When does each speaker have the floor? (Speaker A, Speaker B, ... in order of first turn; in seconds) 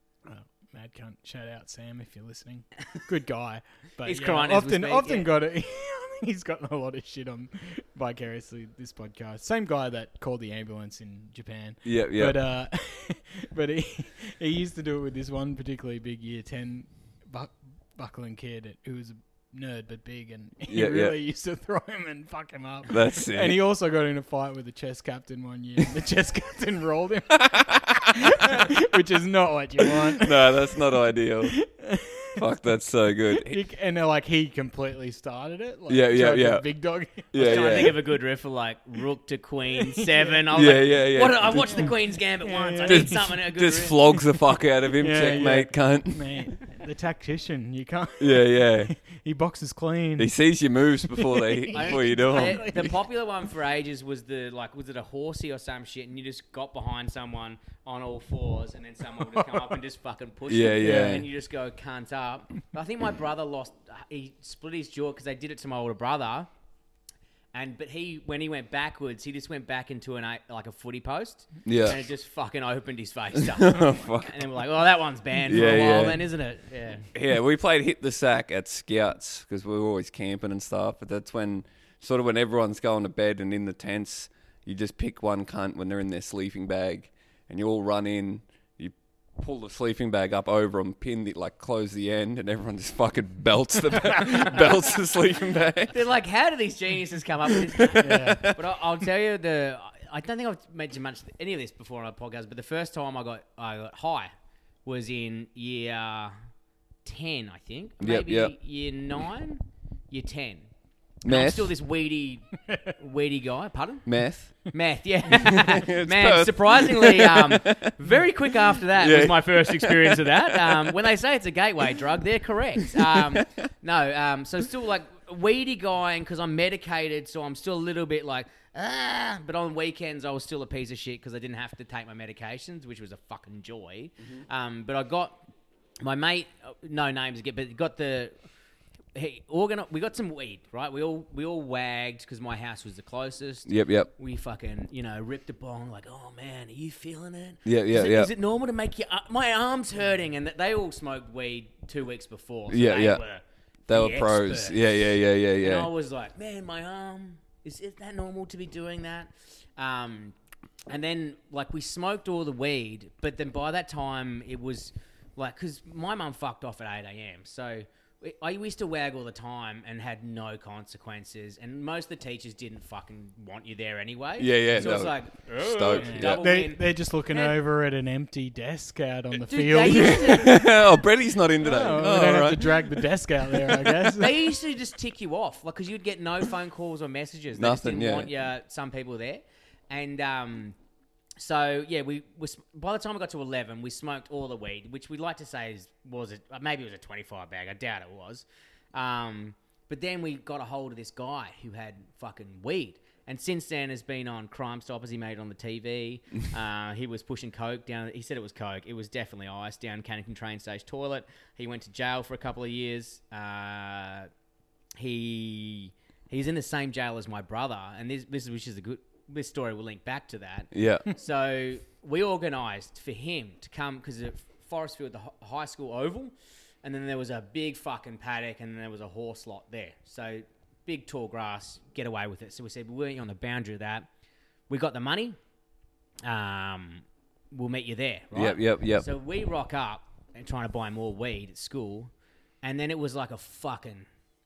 Speaker A: 0.2-30.8, 31.5-32.4, 33.4-38.0, 39.9-40.4, 41.5-43.3, 44.9-50.3, 51.1-53.0, 59.2-59.7, 60.8-61.2, 98.0-98.5, 112.7-112.9, 175.9-180.5, 181.6-184.3
Speaker B: 4.0-5.3, 37.4-44.0, 51.7-66.5, 67.5-77.1, 95.9-104.3, 104.8-106.3, 107.0-110.7, 111.2-114.1, 114.7-135.4, 136.0-138.3, 139.1-160.3, 160.9-177.6, 179.4-180.8, 184.2-190.8, 191.4-214.3, 215.0-234.1, 234.7-235.4, 236.2-242.1, 242.6-244.1
Speaker C: 11.8-12.4, 20.7-21.1, 22.9-23.6, 27.5-28.1, 30.0-31.6, 32.4-33.6, 35.9-36.6, 37.3-38.0, 40.5-42.0, 42.9-46.6, 48.2-48.9, 50.2-53.0, 60.5-61.3, 71.7-72.0, 73.3-74.6, 75.5-76.3, 77.1-96.0, 97.6-98.6, 108.0-108.5, 111.3-111.7, 114.1-114.6, 115.3-117.9, 118.5-121.0, 122.8-123.5, 143.7-144.1, 147.7-148.3, 152.7-153.2, 153.9-155.9, 174.4-176.5, 179.8-183.1, 183.7-183.9, 187.6-188.3, 220.7-221.1, 238.3-239.1